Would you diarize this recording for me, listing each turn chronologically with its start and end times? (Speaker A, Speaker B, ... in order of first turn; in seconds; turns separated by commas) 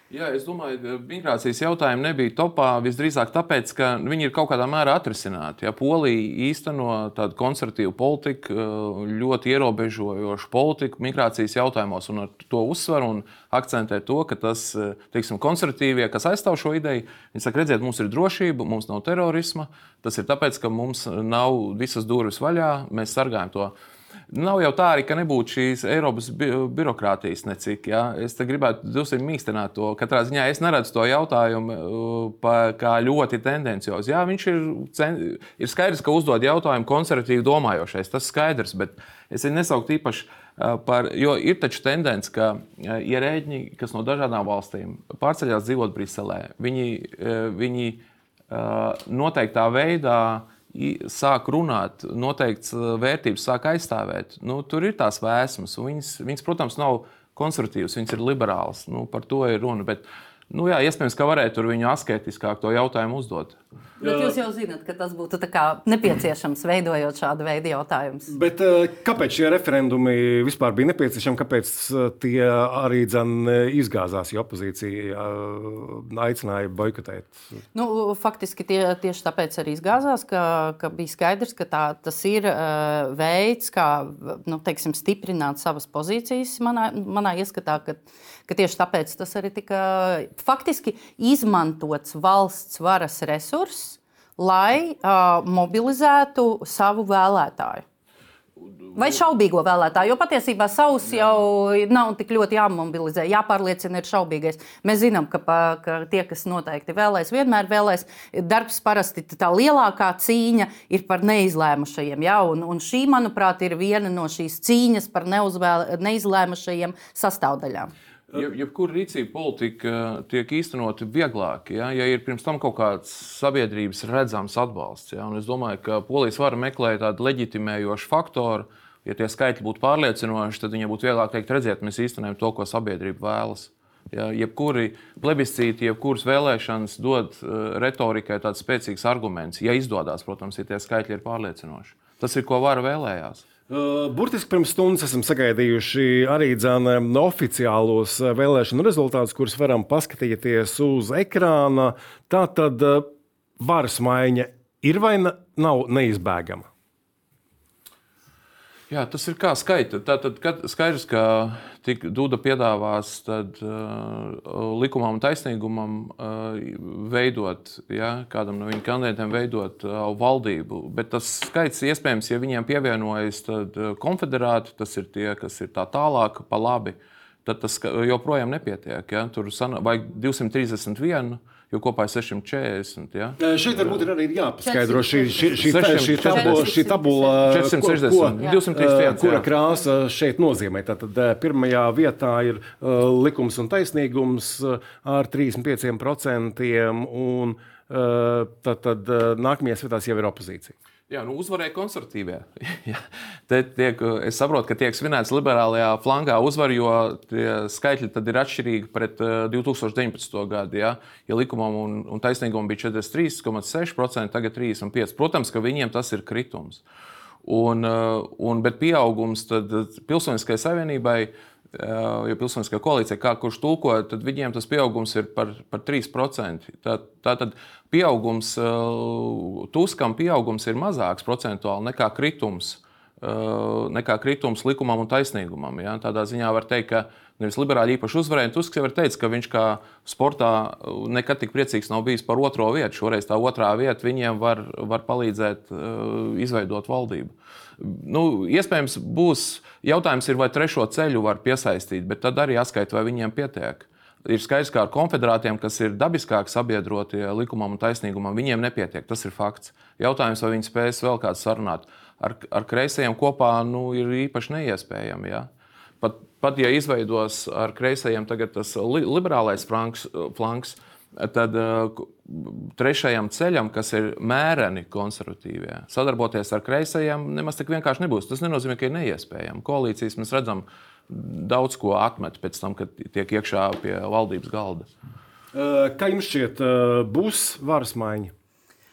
Speaker A: 0.1-23.7, Speaker A: 24.3-63.6, Speaker B: 64.0-68.3, Speaker C: 64.0-64.3, Speaker C: 68.3-77.4, Speaker B: 77.7-97.8, Speaker B: 99.0-117.9, Speaker A: 118.3-143.4, Speaker C: 143.7-153.1, Speaker C: 153.6-156.7, Speaker A: 158.9-183.4, Speaker C: 183.4-200.7, Speaker B: 184.6-187.4, Speaker A: 185.6-186.7, Speaker A: 187.4-189.5, Speaker A: 201.1-216.8, Speaker A: 217.4-265.5, Speaker A: 266.0-284.9, Speaker C: 285.5-288.3